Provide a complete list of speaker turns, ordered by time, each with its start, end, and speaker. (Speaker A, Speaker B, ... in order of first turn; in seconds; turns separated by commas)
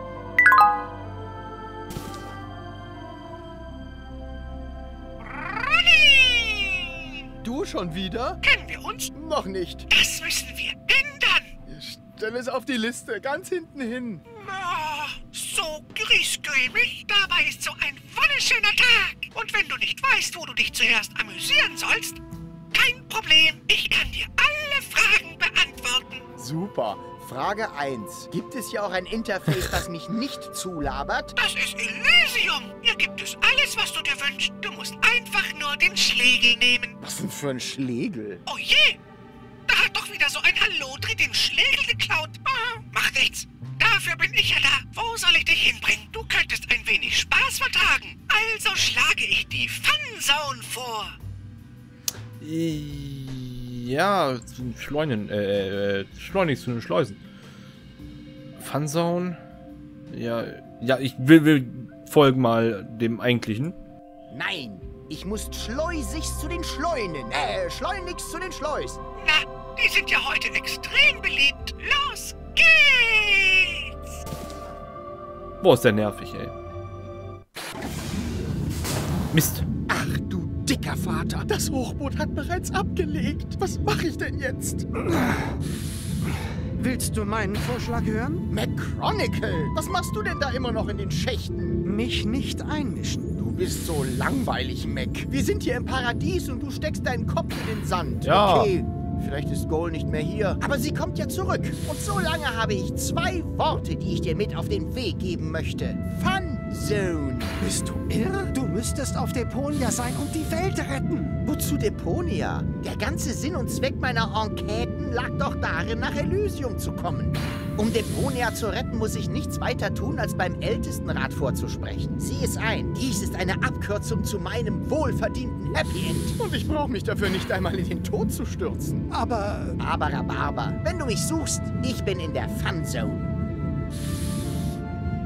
Speaker A: 5.3-6.9, Speaker B: 7.4-8.4, Speaker A: 8.4-9.1, Speaker B: 9.1-9.9, Speaker A: 9.9-11.5, Speaker B: 11.7-14.2, Speaker A: 14.3-22.2, Speaker A: 22.7-26.3, Speaker B: 26.4-27.1, Speaker C: 27.0-31.3, Speaker A: 31.4-37.0, Speaker C: 37.0-38.4, Speaker A: 38.5-39.0, Speaker A: 39.7-51.2, Speaker D: 52.4-57.2, Speaker D: 58.6-59.4, Speaker D: 60.1-63.8, Speaker C: 64.3-69.0, Speaker A: 69.2-73.9, Speaker D: 75.6-76.5, Speaker D: 79.3-79.7, Speaker C: 79.9-81.4, Speaker B: 81.4-84.9, Speaker E: 86.8-88.4, Speaker C: 88.5-91.8, Speaker E: 91.8-93.4, Speaker C: 93.4-107.6, Speaker D: 98.2-98.7, Speaker E: 107.6-111.4, Speaker C: 111.4-126.4, Speaker B: 126.4-129.1, Speaker E: 129.1-129.8, Speaker C: 129.8-133.3